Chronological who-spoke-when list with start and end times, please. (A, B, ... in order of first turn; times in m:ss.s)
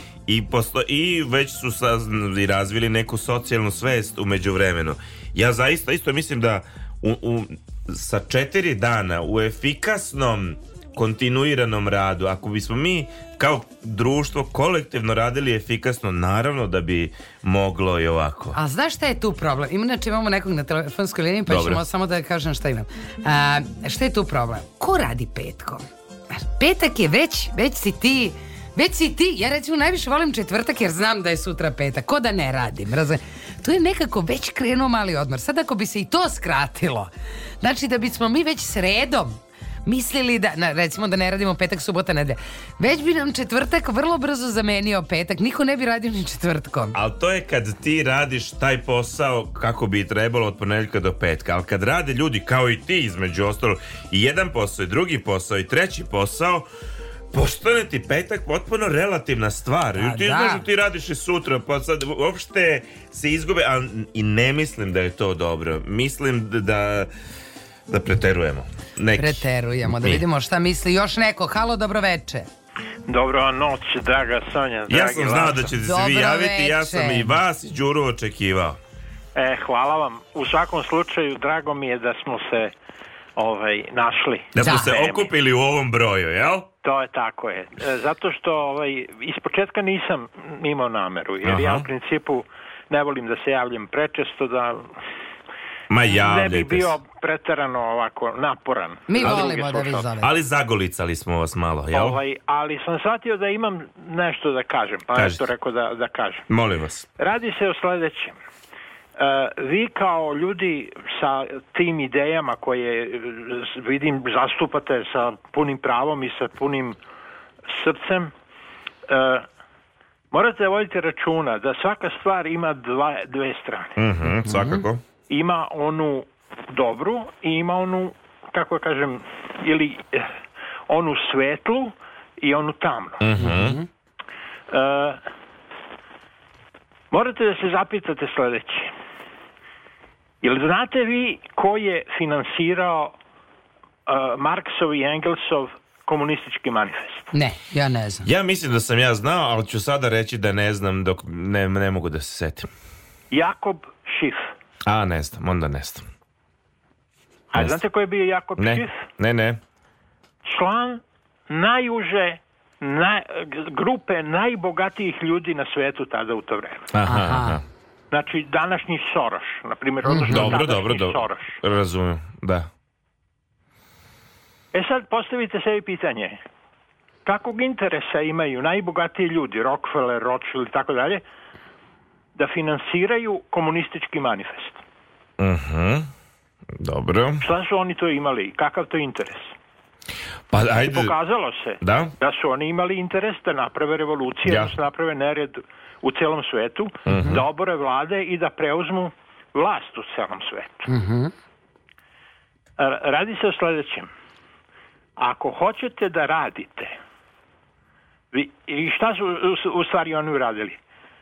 0:00.3-0:18.6 A
0:18.5-0:37.1 B
0:21.5-0:21.8 A
0:37.6-0:47.0 B
0:46.9-0:56.6 A
0:57.3-1:07.1 A
1:00.0-1:00.6 B
1:07.9-1:10.2 A
1:09.2-1:12.5 B
1:13.1-1:15.7 C
1:14.9-1:18.8 A
1:15.7-1:17.4 B
1:19.3-1:22.7 C
1:23.4-1:25.3 C
1:24.5-1:26.7 A
1:24.6-1:24.9 B
1:26.8-1:34.9 C
1:31.4-1:31.9 A
1:35.9-1:37.0 A
1:36.1-1:40.1 C
1:39.1-1:40.3 B
1:39.2-1:39.5 A
1:40.2-1:42.2 A
1:41.9-1:46.5 C
1:45.1-1:45.5 A
1:46.5-1:47.1 A
1:47.2-1:48.4 C
1:49.2-1:57.0 C
1:57.7-1:58.3 C
1:59.1-1:59.4 C
2:00.3-2:04.0 C
2:04.0-2:05.0 A
2:04.4-2:04.8 B
2:05.3-2:10.3 C
2:10.9-2:13.2 C
2:13.2-2:13.8 A
2:13.4-2:13.8 B
2:14.7-2:15.2 C
2:17.1-2:18.9 C
2:20.4-2:23.1 C
2:24.0-2:27.3 C
2:27.3-2:28.3 B
2:28.2-2:32.7 A
2:33.3-2:34.5 C
2:34.8-2:36.0 A
2:37.5-2:39.0 C
2:37.6-2:37.8 A
2:38.6-2:39.6 A
2:40.4-2:46.9 C
2:46.9-2:47.6 A
2:47.0-2:47.6 B
2:48.1-2:51.6 C
2:50.0-2:50.5 B
2:50.3-2:52.7 A
2:54.7-2:56.4 C
2:57.2-3:01.2 C
3:02.4-3:04.8 C
3:05.4-3:06.1 A
3:06.8-3:07.4 A
3:07.4-3:09.5 C
3:10.5-3:11.1 A
3:10.8-3:20.9 C
3:11.8-3:12.1 A
3:14.4-3:14.8 A
3:17.0-3:17.4 A
3:20.9-3:21.3 B
3:22.8-3:24.1 C
3:25.2-3:27.0 C
3:28.3-3:30.8 C